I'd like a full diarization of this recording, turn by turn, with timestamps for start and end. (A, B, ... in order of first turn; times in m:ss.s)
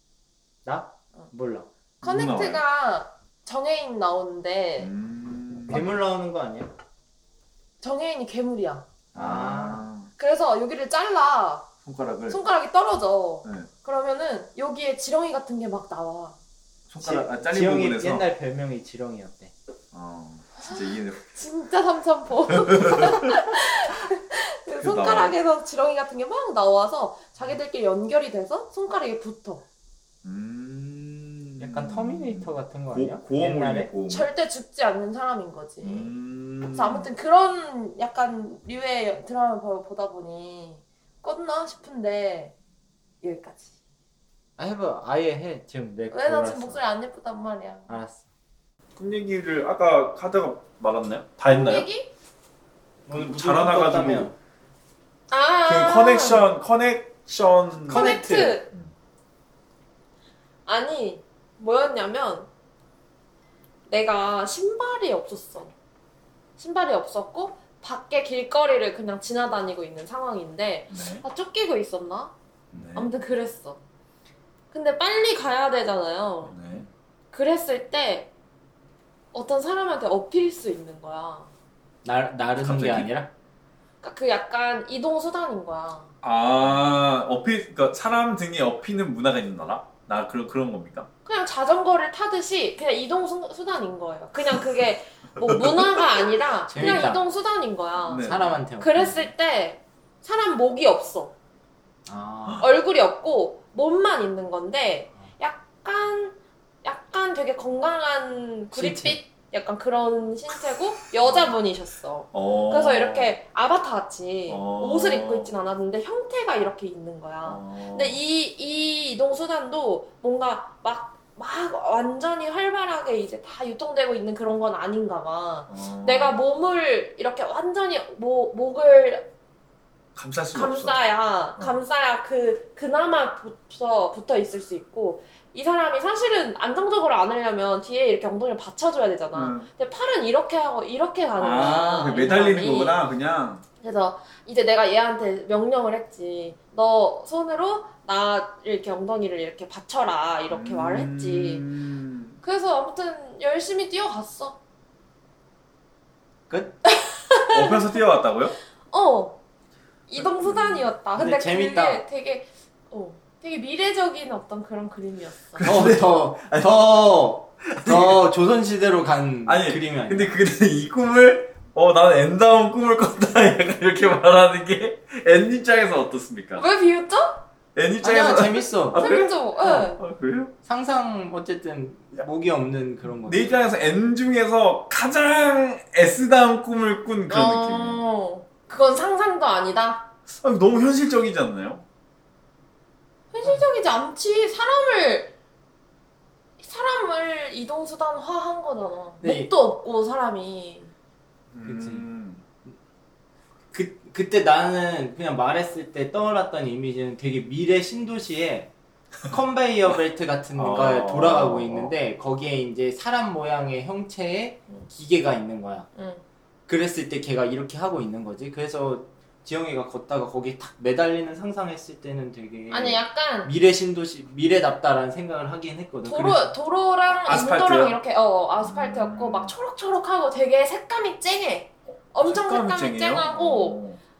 0:00.6-0:01.7 A
0:02.0-0:02.6 B
0:02.0-0:04.9 C
0:04.8-0:06.0 B
0:05.6-0:06.7 A
0:07.8-0:08.9 C
0:09.1-0:10.1 B
0:09.2-0:09.8 A
0:10.2-0:11.7 C
0:11.8-0:12.4 B
0:12.3-0:16.4 C
0:13.4-0:13.7 B
0:16.9-0:18.3 B
0:17.0-0:19.5 A
0:19.9-0:21.4 B
0:20.6-0:29.6 C
0:22.5-0:23.4 B
0:24.8-0:25.4 B
0:30.2-0:34.3 B
0:31.6-0:33.9 A
0:34.1-0:36.1 C
0:35.8-0:37.1 B
0:36.7-0:42.5 C
0:43.2-0:43.7 C
0:44.6-0:46.8 A
0:46.1-0:48.0 C
0:47.9-0:48.3 A
0:49.0-0:51.9 B
0:51.5-0:52.1 C
0:53.1-0:54.4 A
0:53.1-0:54.3 B
0:55.3-0:56.5 C
0:55.6-0:58.9 B
0:57.9-0:58.6 A
0:57.9-0:58.7 C
1:00.7-1:02.5 C
1:03.9-1:05.7 C
1:06.6-1:12.3 C
1:10.9-1:11.2 B
1:12.7-1:13.1 B
1:12.9-1:13.8 C
1:14.7-1:16.6 C
1:16.4-1:16.9 B
1:17.3-1:18.3 C
1:19.3-1:21.5 C
1:22.0-1:23.3 A
1:22.5-1:23.1 B
1:24.0-1:26.1 C
1:26.2-1:31.1 B
1:31.2-1:41.3 C
1:35.4-1:36.3 B
1:36.7-1:37.2 A
1:38.0-1:38.6 B
1:38.2-1:39.3 A
1:42.1-1:42.6 A
1:42.6-2:09.3 C
1:48.7-1:49.2 A
1:51.2-1:51.6 B
1:52.3-1:53.4 B
1:54.5-1:55.5 B
1:57.4-1:58.2 B
2:05.7-2:06.4 B
2:10.2-2:11.0 B
2:10.5-2:23.0 C
2:19.3-2:19.7 B
2:21.4-2:23.6 B
2:23.8-2:31.7 C
2:30.5-2:32.4 B
2:32.4-2:34.6 C
2:36.5-2:36.8 A
2:36.9-2:37.8 C
2:37.5-2:38.6 B
2:38.9-2:39.4 C
2:40.1-2:45.7 C
2:40.2-2:40.9 B
2:41.2-2:42.0 A
2:45.5-2:46.8 B
2:45.6-2:50.4 A
2:47.7-2:48.2 B
2:49.5-2:56.7 B
2:56.6-2:57.5 C
2:57.8-3:00.5 B
2:58.0-2:59.1 A
2:58.9-3:00.0 C
3:00.6-3:03.6 A
3:03.2-3:08.0 B
3:07.3-3:10.1 C
3:10.3-3:11.8 B
3:13.3-3:15.3 C
3:16.6-3:20.9 C
3:19.2-3:19.5 A
3:21.5-3:22.4 B
3:21.6-3:22.0 A
3:23.7-3:28.7 A
3:29.3-3:35.9 A
3:30.6-3:32.0 B
3:36.0-3:36.2 C
3:36.7-3:46.5 A
3:42.7-3:43.5 C
3:46.0-3:53.8 C
3:47.2-3:48.0 B
3:48.6-3:49.6 B
3:52.2-3:54.0 B